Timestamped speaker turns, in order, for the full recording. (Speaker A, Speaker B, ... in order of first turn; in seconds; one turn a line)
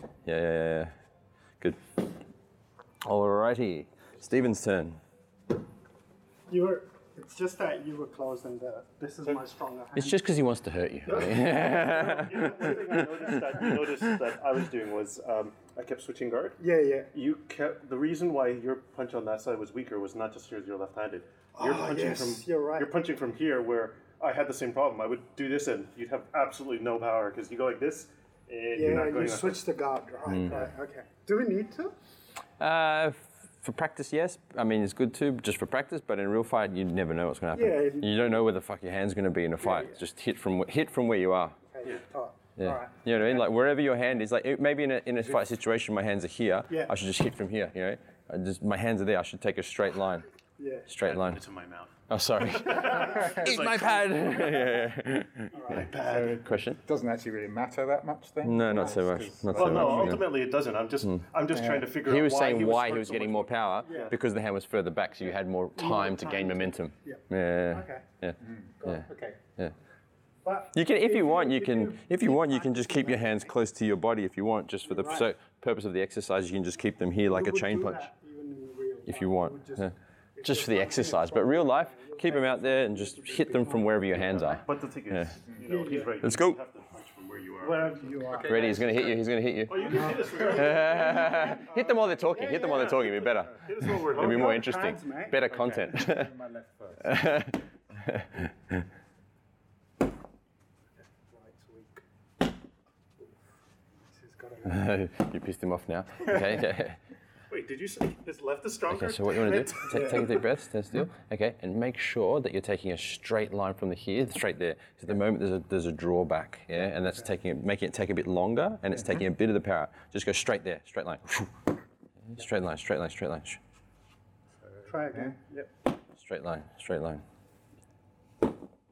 Speaker A: 0.2-0.9
Speaker A: 1.6-1.9
Speaker A: 3.0-5.0
Speaker B: 6.5-10.2
Speaker A: 9.9-14.1
Speaker C: 11.1-16.6
Speaker B: 11.1-13.7
Speaker B: 16.6-17.1
Speaker C: 17.1-29.6
Speaker B: 21.6-22.9
Speaker B: 28.7-31.9
Speaker A: 30.3-30.5
Speaker C: 30.4-30.7
Speaker A: 32.6-41.6
Speaker B: 37.5-38.4
Speaker B: 39.6-40.0
Speaker B: 41.7-43.5
Speaker A: 42.6-50.3
Speaker B: 46.7-47.0
Speaker B: 50.6-50.9
Speaker A: 50.9-51.4
Speaker C: 51.0-54.0
Speaker A: 52.1-55.5
Speaker D: 53.0-54.8
Speaker B: 55.5-56.1
Speaker C: 55.5-56.4
Speaker D: 55.8-60.3
Speaker A: 56.4-56.8
Speaker A: 58.4-60.3
Speaker C: 59.1-64.2
Speaker D: 61.5-61.9
Speaker A: 62.0-69.7
Speaker B: 63.8-64.1
Speaker B: 65.7-68.0
Speaker D: 68.4-69.4
Speaker B: 68.8-69.1
Speaker B: 70.4-73.5
Speaker A: 70.7-78.1
Speaker B: 74.8-75.3
Speaker B: 77.3-84.6
Speaker A: 79.0-85.3
Speaker C: 84.6-88.3
Speaker B: 85.6-86.2
Speaker A: 86.2-86.6
Speaker B: 87.6-89.0
Speaker D: 88.2-89.2
Speaker A: 88.5-96.3
Speaker C: 89.7-94.7
Speaker B: 89.7-93.2
Speaker B: 93.8-95.4
Speaker C: 95.5-95.9
Speaker D: 95.6-97.4
Speaker A: 97.0-98.9
Speaker B: 101.0-102.0
Speaker B: 104.0-105.0
Speaker A: 104.6-107.0
Speaker C: 107.5-110.5
Speaker A: 108.9-121.6
Speaker B: 109.9-110.3
Speaker B: 116.8-117.2
Speaker D: 118.9-119.2
Speaker A: 122.3-123.6
Speaker D: 124.5-125.4
Speaker B: 124.8-125.7
Speaker A: 126.1-127.2